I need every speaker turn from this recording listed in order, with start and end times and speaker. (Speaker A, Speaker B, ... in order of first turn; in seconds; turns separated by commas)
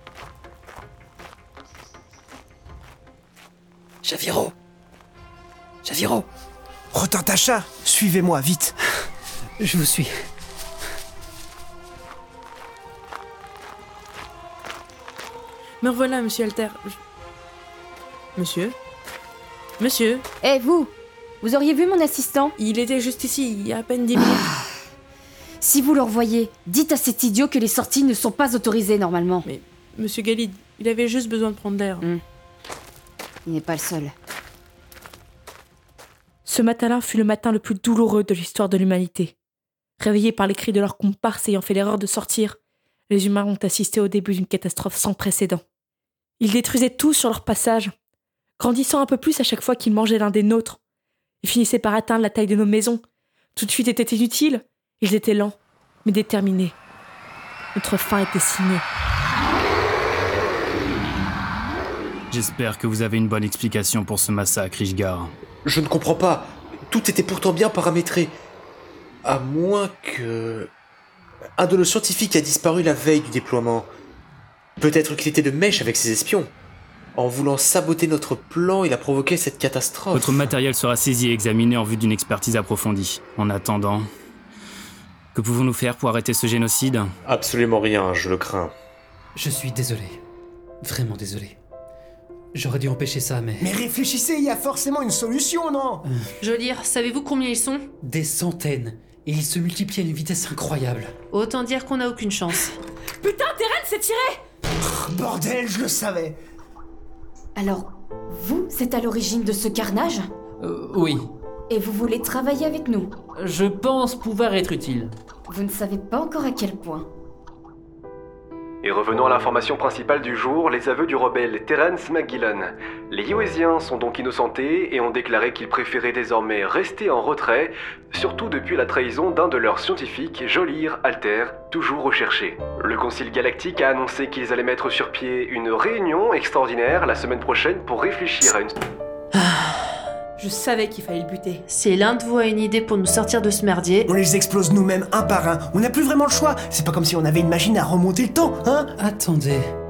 Speaker A: 4.0-4.5, Speaker A: 5.8-6.2, Speaker B: 6.9-8.7, Speaker A: 9.6-10.1, Speaker C: 15.8-17.0, Speaker C: 18.4-18.7, Speaker C: 19.8-20.2, Speaker D: 20.4-20.9, Speaker D: 21.4-22.5, Speaker C: 22.6-24.4, Speaker D: 24.1-24.7, Speaker D: 25.6-29.5, Speaker C: 29.4-32.0, Speaker D: 33.5-34.1, Speaker E: 36.4-39.3, Speaker E: 40.0-42.6, Speaker E: 43.1-45.6, Speaker E: 46.4-47.9, Speaker E: 48.6-50.8, Speaker E: 51.4-53.0, Speaker E: 53.5-56.8, Speaker E: 57.7-58.8, Speaker F: 62.3-65.3, Speaker G: 65.6-68.3, Speaker G: 69.2-70.7, Speaker G: 71.6-73.9, Speaker G: 74.8-76.5, Speaker G: 77.2-80.5, Speaker F: 80.1-84.1, Speaker F: 85.3-87.1, Speaker G: 87.2-88.7, Speaker A: 89.3-90.2, Speaker A: 90.8-91.6, Speaker A: 92.5-93.7, Speaker B: 93.6-96.0, Speaker H: 96.4-97.8, Speaker A: 98.0-101.1, Speaker H: 101.3-102.8, Speaker E: 103.2-104.4, Speaker B: 104.9-106.4, Speaker D: 107.5-110.2, Speaker I: 110.6-111.3, Speaker D: 111.7-113.1, Speaker I: 113.3-115.1, Speaker D: 115.5-117.0, Speaker J: 118.8-138.8, Speaker H: 139.3-139.9, Speaker E: 140.4-141.6, Speaker H: 141.7-144.1, Speaker B: 144.1-148.9, Speaker A: 149.0-149.6